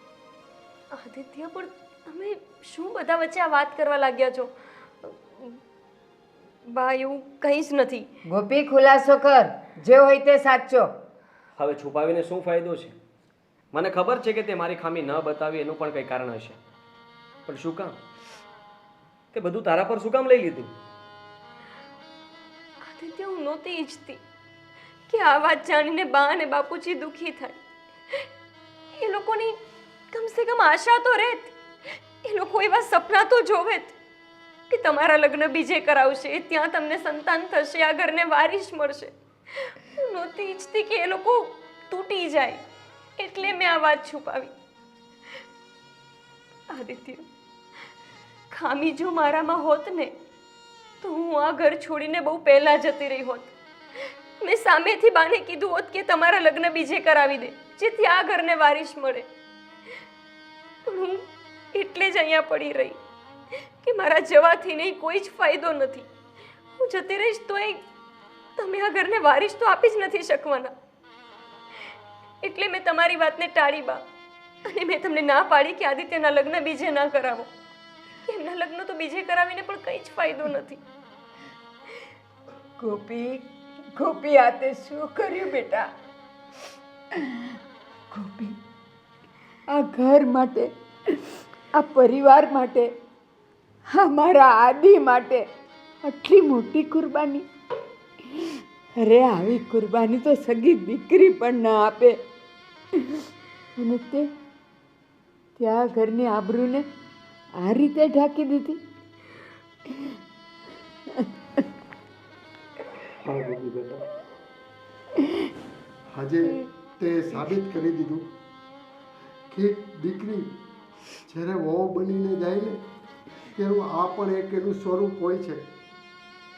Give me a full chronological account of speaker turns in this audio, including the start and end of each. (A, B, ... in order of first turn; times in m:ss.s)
0:00.9-0:05.6 A
0:06.7-0:08.0 A
0:08.3-0:10.9 B
0:11.6-0:13.0 C
0:13.7-0:16.6 C
0:17.4-0:18.0 C
0:19.3-0:20.7 C
0:22.8-0:24.2 A
0:25.1-0:27.6 A
0:28.9-0:29.6 A
0:30.1-0:33.9 A
0:34.7-0:42.6 A
0:43.2-0:44.5 A
0:46.7-0:47.2 A
0:48.5-0:50.1 A
0:51.0-0:59.3 A
1:00.8-1:03.0 A
1:03.5-1:06.1 A
1:06.8-1:07.8 A
1:08.6-1:10.7 A
1:12.4-1:14.0 A
1:14.6-1:17.5 A
1:18.2-1:20.8 A
1:22.8-1:23.4 B
1:24.0-1:25.9 B
1:27.3-1:27.5 B
1:28.1-1:28.6 B
1:29.7-1:30.7 B
1:31.7-1:32.9 B
1:33.9-1:35.4 B
1:36.0-1:37.4 B
1:39.0-1:42.2 B
1:43.8-1:44.3 B
1:45.6-1:46.8 B
1:47.6-1:48.8 B
1:53.2-1:54.0 D
1:56.1-1:58.3 D
1:59.5-2:00.5 D
2:01.3-2:02.8 D
2:03.5-2:05.6 D